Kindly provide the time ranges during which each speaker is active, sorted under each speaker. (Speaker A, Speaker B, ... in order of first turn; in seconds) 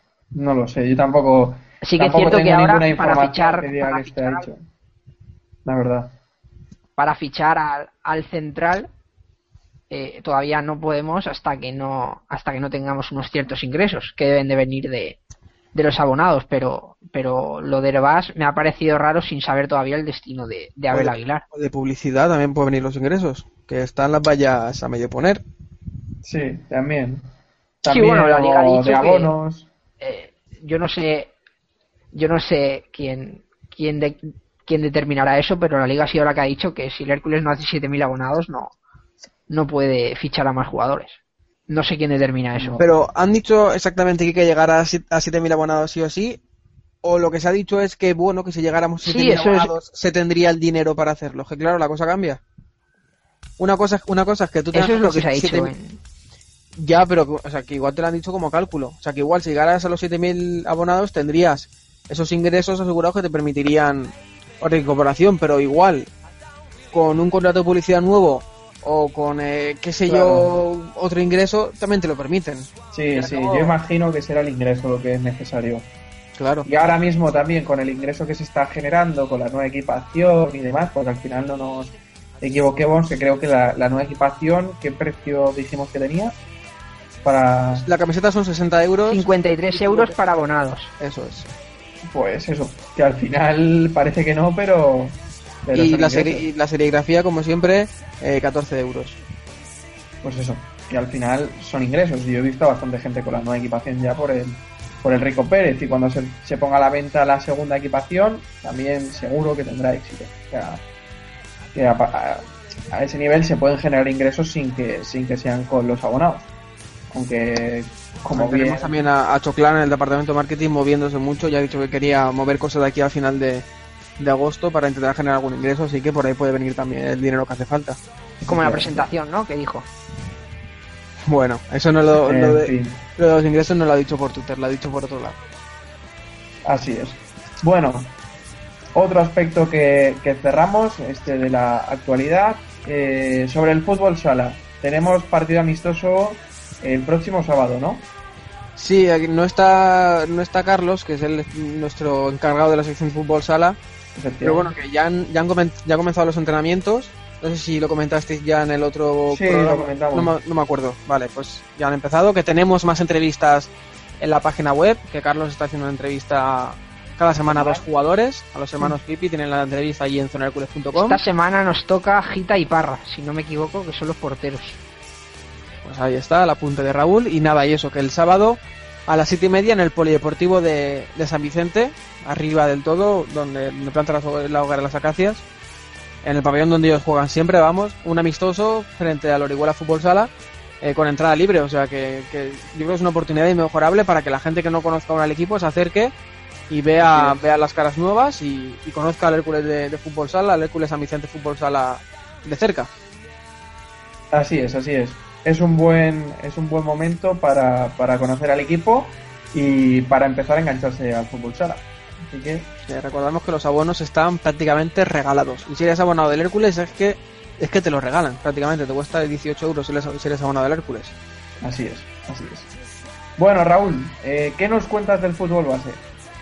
Speaker A: 0.3-4.6, 5.6-6.1, 26.2-27.2, 27.8-29.7, 42.6-42.8, 70.0-70.5, 72.9-75.9, 76.6-86.3, 87.2-87.8, 92.0-96.5, 100.2-110.8, 111.7-116.5, 117.1-118.9, 128.4-129.1, 132.2-133.0, 136.6-138.1, 138.9-148.1, 154.2-154.7, 159.3-160.3, 167.5-167.8, 197.0-197.4, 204.3-212.7, 221.6-222.7, 223.4-226.0
Speaker B: 1.8-4.5, 7.0-8.9, 9.9-15.2, 15.7-21.4, 27.9-29.3, 30.0-31.3, 32.1-38.7, 39.5-41.2, 41.7-42.8, 49.0-49.7, 54.7-56.0, 89.1-90.9, 128.5-129.9, 170.9-174.8
Speaker C: 20.9-25.4, 42.8-46.4, 47.0-52.4, 53.6-55.7, 56.8-66.1, 66.9-73.8, 76.4-76.7, 87.7-90.2, 91.0-91.5, 95.7-99.2, 118.3-123.7, 124.2-128.0, 131.2-135.4, 148.8-153.8, 154.4-171.2, 175.8-185.4, 186.2-190.3, 190.8-196.1, 196.7-202.9, 212.9-221.1